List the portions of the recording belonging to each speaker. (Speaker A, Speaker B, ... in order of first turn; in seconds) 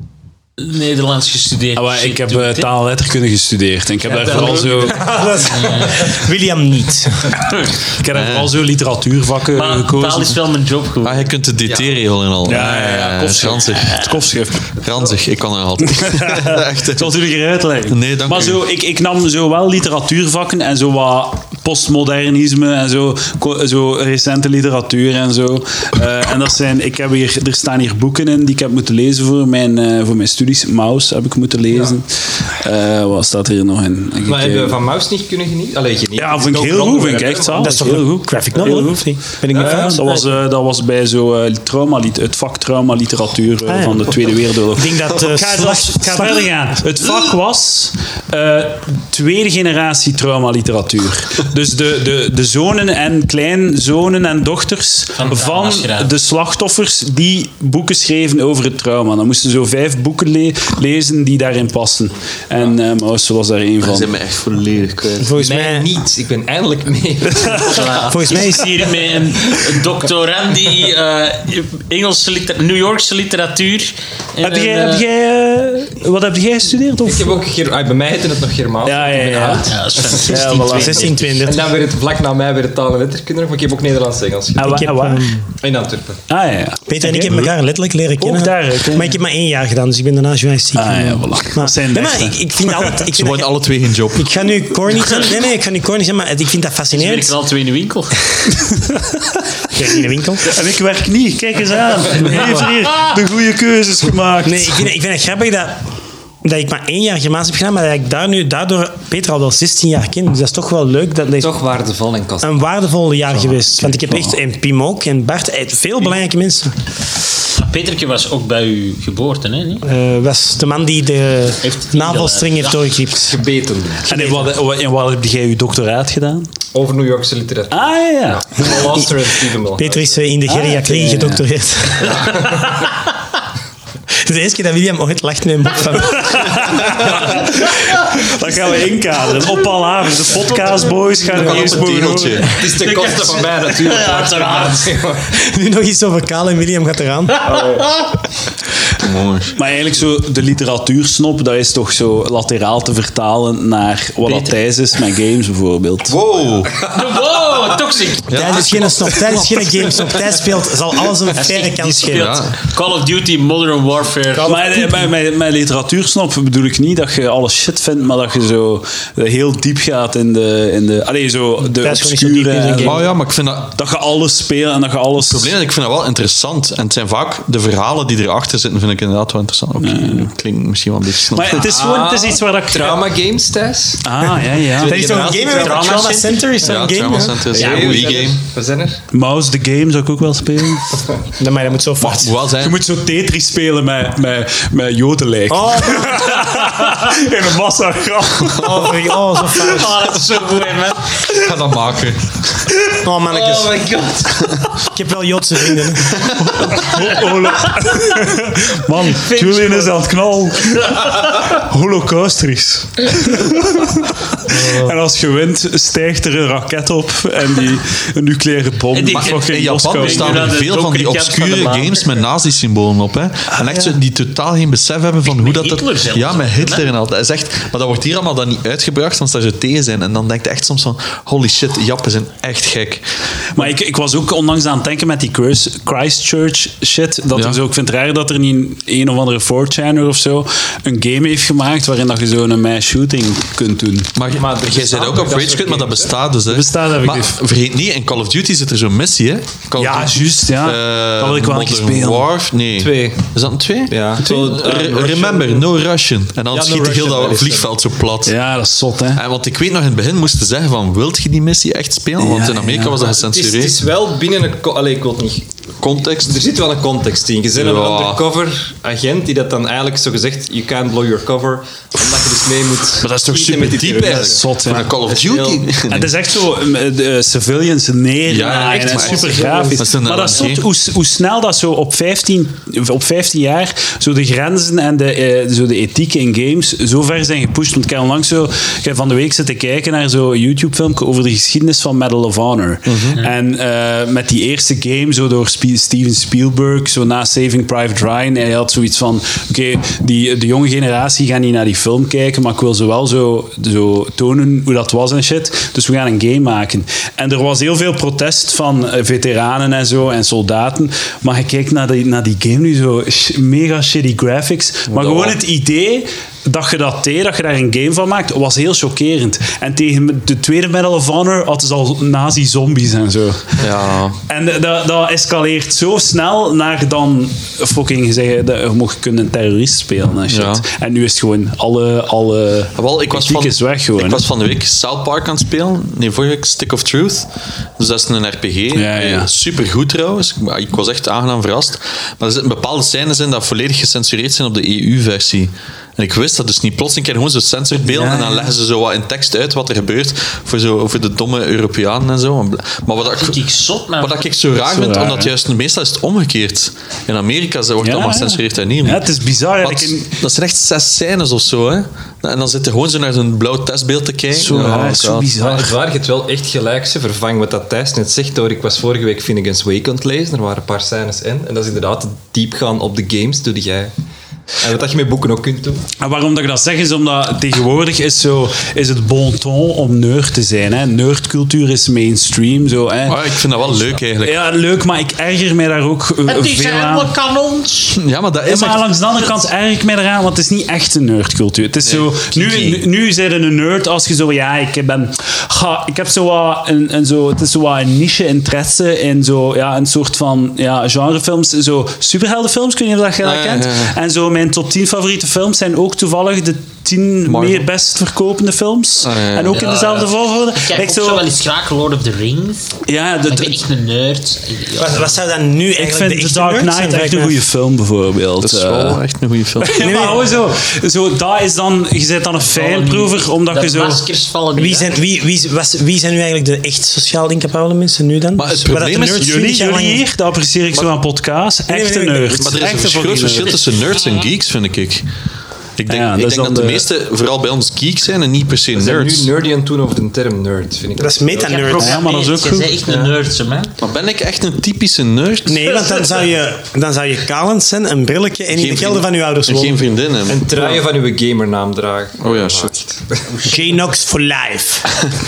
Speaker A: 0.6-2.7, 4.0-6.2, 9.6-11.3, 55.2-56.1, 67.5-75.1, 79.7-81.4, 96.9-98.4, 117.5-119.9, 121.6-123.0, 142.7-144.9, 147.6-148.1, 154.3-154.6, 156.8-158.3, 161.3-164.7, 185.0-186.7, 187.5-188.3, 199.5-201.2, 203.3-204.5, 207.7-208.0, 209.0-210.1, 210.6-211.5, 218.9-222.3, 225.2-226.9, 278.4-279.4, 353.0-354.3, 386.3-388.0, 409.5-415.2, 422.4-424.9, 441.4-443.8, 453.3-453.7
Speaker B: 1.8-5.0, 7.9-10.4, 12.4-14.8, 15.8-34.8, 36.2-64.1, 74.4-77.4, 78.8-81.1, 84.6-85.4, 86.3-87.5, 88.2-89.2, 90.8-93.0, 98.7-99.4, 100.4-104.9, 124.1-126.5, 127.7-128.8, 130.5-131.5, 136.1-142.5, 149.5-156.2, 164.4-173.1, 173.7-175.6, 179.8-180.3, 181.3-183.1, 184.0-185.0, 189.1-191.0, 192.6-199.1, 206.6-220.7, 233.6-244.2, 246.5-247.4, 249.8-252.3, 254.2-254.5, 258.2-259.2, 262.2-263.0, 273.8-274.9, 275.9-323.7, 324.2-334.3, 338.7-339.3, 347.8-348.6, 354.6-355.3, 357.8-360.2, 364.3-365.8, 376.0-383.4, 384.2-387.1, 388.5-411.2, 412.9-413.6, 415.8-419.0, 419.6-424.1, 429.1-433.6, 435.9-436.9, 441.7-442.8
Speaker C: 4.3-7.3, 37.6-40.3, 43.7-46.5, 65.2-65.9, 68.1-68.9, 80.2-81.7, 84.6-85.4, 86.9-97.4, 99.7-100.6, 104.4-105.9, 106.4-111.5, 112.4-116.8, 119.8-123.4, 124.1-124.5, 129.6-132.4, 134.2-137.7, 145.3-147.6, 158.3-162.4, 164.3-165.1, 171.6-173.1, 184.8-187.5, 191.4-192.4, 195.5-196.8, 198.5-200.2, 203.0-203.8, 204.8-206.9, 414.8-417.4, 419.8-420.4, 424.6-430.0, 431.7-432.7, 441.0-442.0, 445.4-449.8, 453.4-454.9
Speaker D: 8.1-8.5, 11.0-14.2, 14.8-17.2, 17.9-18.6, 63.8-65.3, 93.1-94.4, 141.3-142.6, 149.0-149.6, 156.1-156.9, 158.3-160.3, 162.1-162.6, 172.8-173.7, 175.2-181.7, 186.6-188.4, 192.0-192.8, 201.3-202.4, 206.2-206.5, 219.1-233.1, 237.3-237.6, 244.2-258.4, 259.1-263.8, 265.8-266.4, 267.5-268.3, 273.0-276.1, 278.2-280.6, 292.9-293.2, 314.9-315.4, 323.6-324.2, 330.3-330.6, 332.8-353.4, 354.0-359.1, 359.6-365.3, 383.1-384.4, 388.0-388.9, 391.8-392.8, 403.2-403.9, 407.3-407.7, 409.0-409.8, 418.4-420.0, 428.4-429.3, 432.4-435.1, 435.8-439.3, 443.8-446.0, 448.5-450.8, 452.2-452.7
Speaker E: 11.7-12.0, 31.7-31.9, 34.2-37.9, 39.5-40.0, 65.4-68.0, 77.0-80.2, 81.4-84.8, 85.6-86.2, 111.4-112.6, 123.2-124.1, 126.7-130.2, 132.0-132.8, 141.4-145.3, 147.5-147.9, 181.6-184.1, 184.8-186.1, 187.5-189.0, 244.3-246.2, 252.8-253.3, 253.9-255.7, 256.5-257.7, 263.0-265.4, 266.2-274.5, 275.1-275.7, 365.4-373.9, 374.6-375.8, 438.7-441.7, 450.3-453.2